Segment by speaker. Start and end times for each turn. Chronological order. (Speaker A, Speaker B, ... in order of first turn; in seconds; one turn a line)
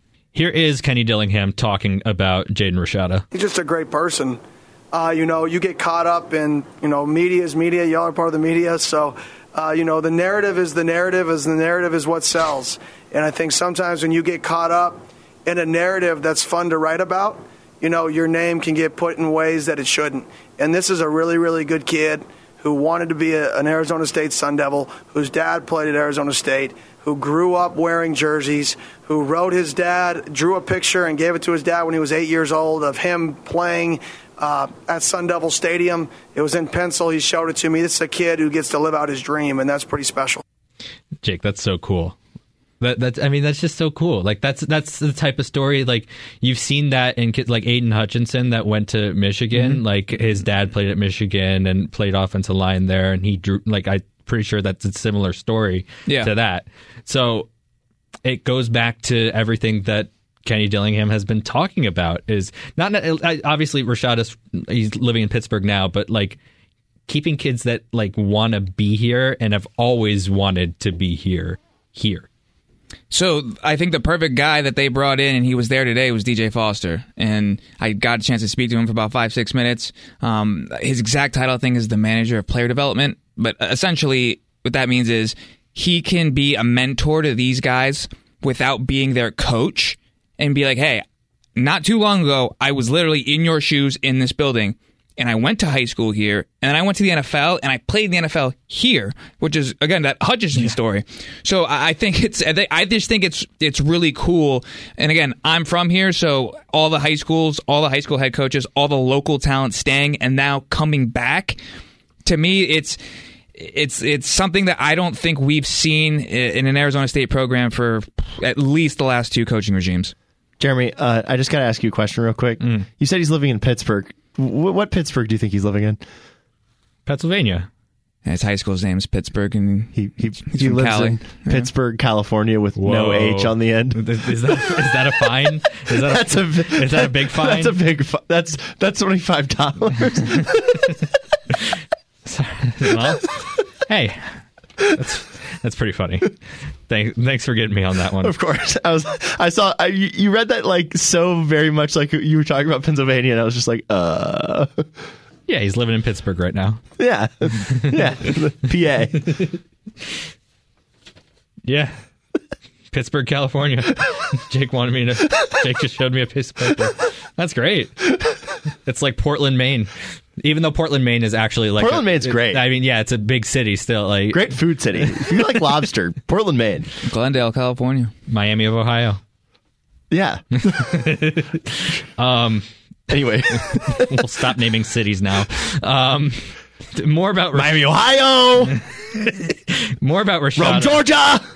Speaker A: 0.3-3.2
Speaker B: 3.3-4.4
Speaker B: 4.9-40.4
Speaker A: 41.2-42.2
Speaker A: 42.8-57.5
Speaker C: 49.5-49.8
Speaker A: 58.2-66.4
Speaker A: 67.1-72.3
Speaker C: 73.1-91.0
Speaker C: 91.6-111.6
Speaker C: 112.2-113.0
Speaker C: 113.5-120.1
Speaker D: 120.6-126.0
Speaker A: 122.6-122.9
Speaker A: 127.1-127.7
Speaker C: 128.2-131.7
Speaker D: 129.9-135.0
Speaker A: 132.8-137.8
Speaker D: 135.9-141.1
Speaker A: 142.3-146.4
Speaker A: 146.9-148.3
Speaker D: 148.2-154.8
Speaker A: 155.5-156.8
Speaker D: 157.0-159.5
Speaker A: 157.7-158.3
Speaker A: 161.7-161.9
Speaker A: 162.9-168.2
Speaker A: 168.8-174.6
Speaker D: 171.8-172.7
Speaker D: 174.3-176.9
Speaker C: 177.0-178.1
Speaker A: 178.3-179.2
Speaker D: 180.1-181.2
Speaker A: 180.6-182.7
Speaker D: 183.1-184.3
Speaker A: 183.5-187.9
Speaker D: 187.5-188.8
Speaker A: 188.7-191.0
Speaker D: 190.6-191.4